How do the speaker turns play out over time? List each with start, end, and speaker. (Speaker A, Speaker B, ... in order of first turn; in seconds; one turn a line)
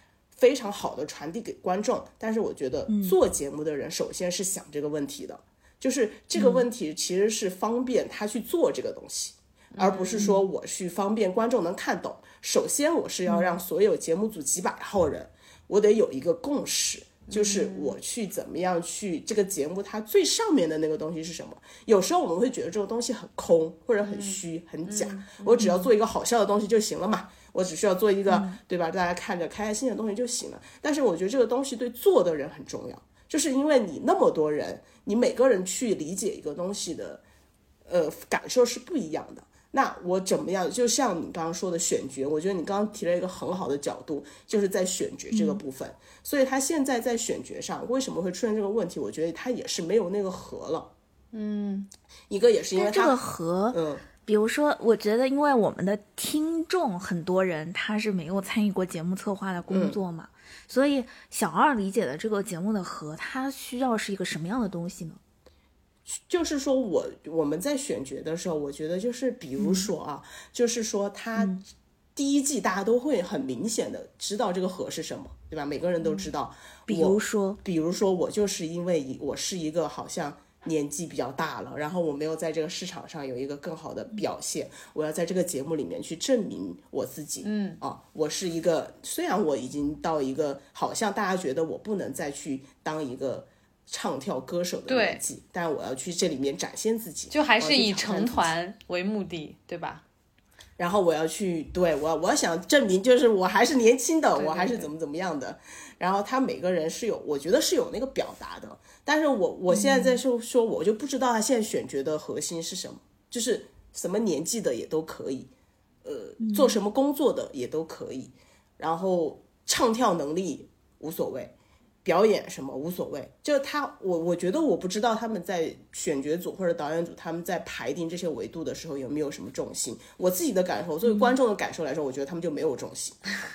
Speaker A: 0.3-37.2
Speaker B: 2.9-3.1
Speaker B: 6.3-6.7
Speaker C: 9.7-10.2
Speaker B: 13.3-13.6
Speaker C: 17.3-17.9
Speaker C: 24.0-25.6
Speaker B: 25.6-25.9
Speaker B: 28.3-28.6
Speaker A: 37.9-50.9
Speaker B: 45.3-45.6
Speaker C: 51.3-51.9
Speaker A: 52.3-53.2
Speaker B: 52.8-65.2
Speaker A: 53.7-54.0
Speaker A: 59.7-60.0
Speaker A: 66.3-71.6
Speaker B: 69.6-69.9
Speaker B: 71.3-71.6
Speaker A: 72.2-98.5
Speaker B: 76.9-77.6
Speaker C: 87.4-87.8
Speaker C: 94.9-95.2
Speaker C: 97.3-100.0
Speaker A: 100.8-115.5
Speaker C: 104.4-104.9
Speaker B: 109.7-110.2
Speaker A: 116.0-133.2
Speaker B: 116.4-116.8
Speaker B: 131.0-131.3